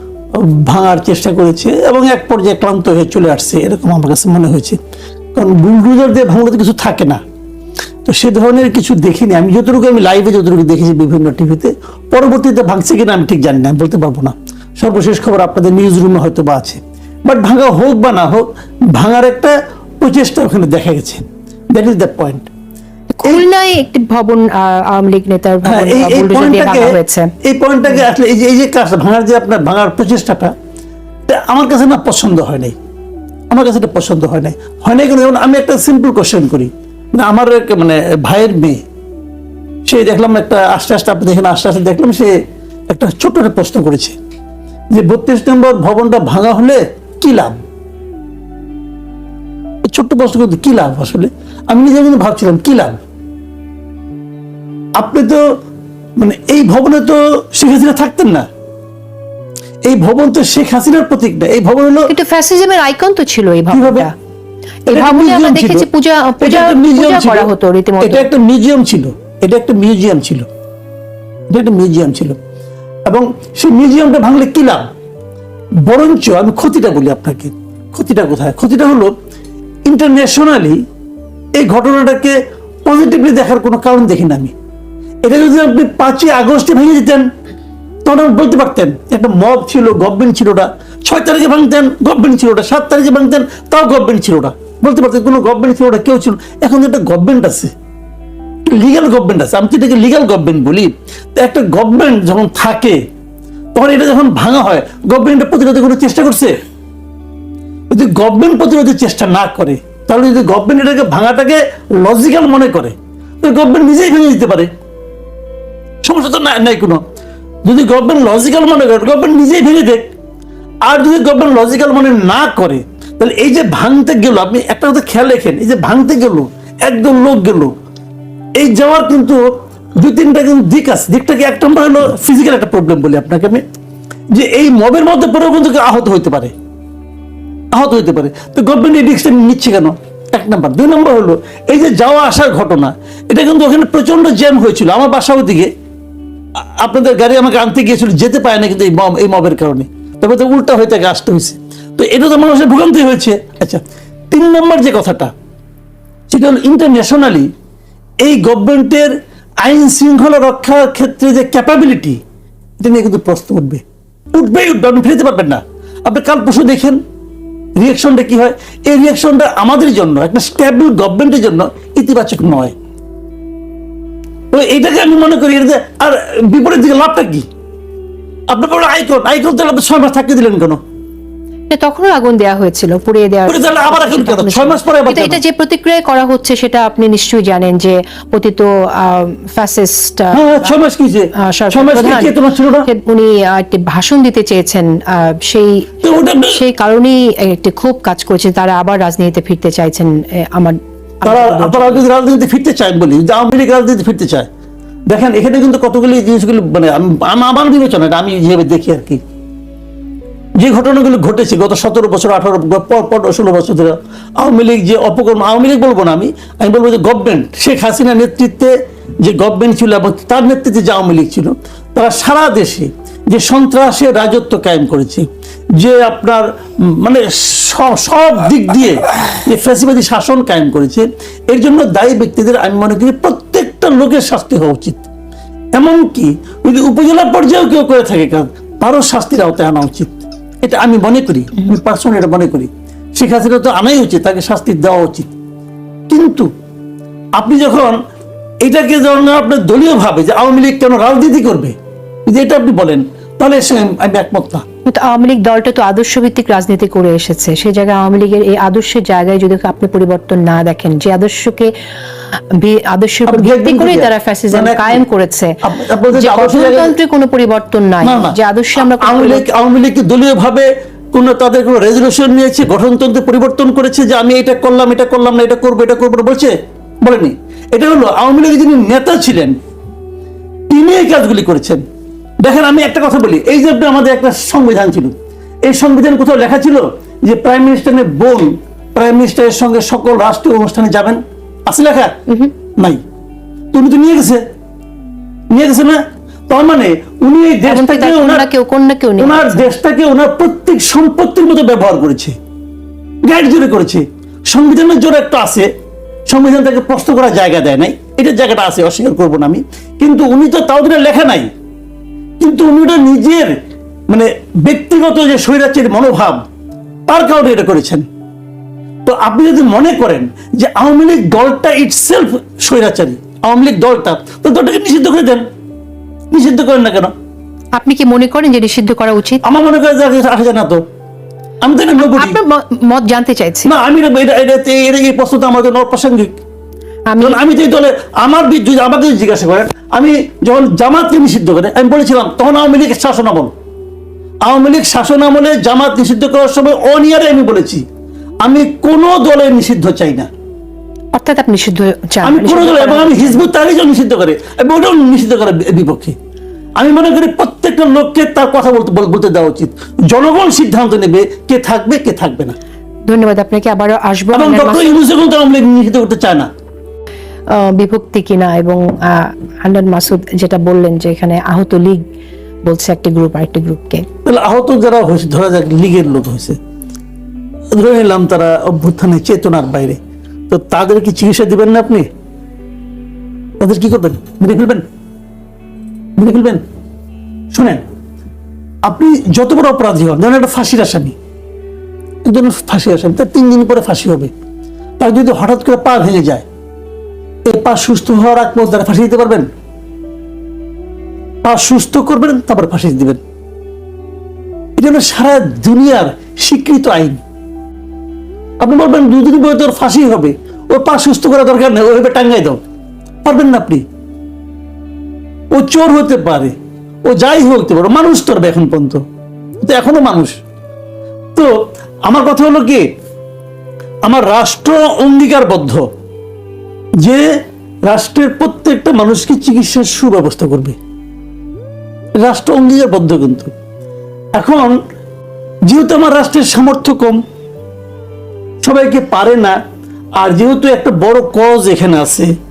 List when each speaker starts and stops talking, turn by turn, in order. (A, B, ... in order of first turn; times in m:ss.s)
0:00.3-0:04.8 A
0:05.4-0:07.2 A
0:08.0-0:21.2 A
0:21.7-0:22.5 A
0:23.1-0:27.3 B
0:25.6-0:30.5 A
0:31.3-0:32.7 A
0:33.5-0:38.8 A
0:39.8-0:42.4 A
0:42.9-0:44.2 A
0:44.9-0:47.6 A
0:49.8-0:53.0 A
0:55.0-0:55.4 A
0:56.2-0:58.4 A
0:59.8-1:02.1 A
1:02.1-1:04.1 B
1:03.7-1:04.1 A
1:04.9-1:08.3 B
1:04.9-1:05.8 A
1:06.4-1:07.5 A
1:08.0-1:10.4 A
1:11.5-1:12.4 A
1:13.1-1:14.9 A
1:15.8-1:19.1 A
1:19.8-1:20.8 A
1:21.6-1:24.5 A
1:25.2-1:27.2 A
1:28.0-1:37.7 A
1:38.6-1:43.0 A
1:43.7-1:46.5 A
1:47.9-1:54.7 A
1:56.0-1:57.0 A
1:57.6-2:00.1 A
2:00.8-2:07.7 A
2:08.6-2:09.4 A
2:10.0-2:13.6 A
2:14.3-2:16.5 A
2:17.7-2:25.7 A
2:26.8-2:35.3 A
2:36.3-2:37.5 A
2:38.2-2:42.2 A
2:42.8-2:47.0 A
2:47.8-2:52.7 A
2:54.5-2:57.4 A
2:58.5-3:00.8 A
3:01.7-3:10.7 B
3:03.5-3:05.4 A
3:10.3-3:12.9 A
3:11.4-3:22.0 B
3:16.0-3:16.6 A
3:21.2-3:24.5 A
3:25.1-3:29.2 A
3:30.6-3:55.0 A
3:55.8-4:00.1 A
4:00.6-4:05.3 A
4:06.1-4:06.5 A
4:07.4-4:08.0 A
4:08.6-4:11.7 A
4:12.2-4:14.6 A
4:14.8-4:21.7 B
4:22.5-4:25.5 B
4:23.3-4:25.0 A
4:25.6-4:27.0 A
4:26.1-4:29.4 B
4:28.0-4:39.5 A
4:40.7-4:41.8 A
4:42.4-4:52.1 A
4:53.7-4:54.4 A
4:55.5-4:58.4 A
4:57.7-4:59.7 B
4:59.2-5:02.3 A
5:03.2-5:05.7 A
5:06.3-5:11.5 A
5:12.4-5:13.6 A
5:14.1-5:16.4 A
5:17.1-5:18.0 A
5:19.0-5:25.4 A
5:26.3-5:27.1 A
5:27.8-5:29.4 B
5:29.4-5:30.8 A
5:31.6-5:32.4 A
5:32.0-5:33.7 B
5:33.6-5:36.3 A
5:37.1-5:37.4 B
5:37.2-5:43.5 A
5:44.4-5:47.8 A
5:48.4-5:50.3 A
5:51.1-5:53.5 B
5:52.2-5:56.1 A
5:56.8-6:02.5 A
6:03.1-6:05.0 B
6:04.3-6:06.5 A
6:07.5-6:12.0 B
6:12.6-6:14.0 B
6:14.2-6:16.6 A
6:17.7-6:20.0 A
6:20.5-6:22.1 A
6:23.6-6:24.8 A
6:26.2-6:26.6 A
6:27.5-6:27.8 A
6:28.8-6:31.1 A
6:32.2-6:34.3 A
6:35.0-6:36.4 A
6:37.4-6:39.5 A
6:41.4-6:43.2 A
6:44.8-6:47.2 A
6:48.6-6:52.6 A
6:53.2-6:53.8 A
6:55.5-6:56.5 A
6:57.0-6:59.0 A
6:59.6-7:00.3 A
7:02.0-7:02.8 A
7:04.0-7:05.8 A
7:07.8-7:10.8 A
7:12.2-7:13.5 A
7:14.4-7:14.8 A
7:15.6-7:17.2 A
7:18.6-7:19.6 A
7:20.2-7:22.3 A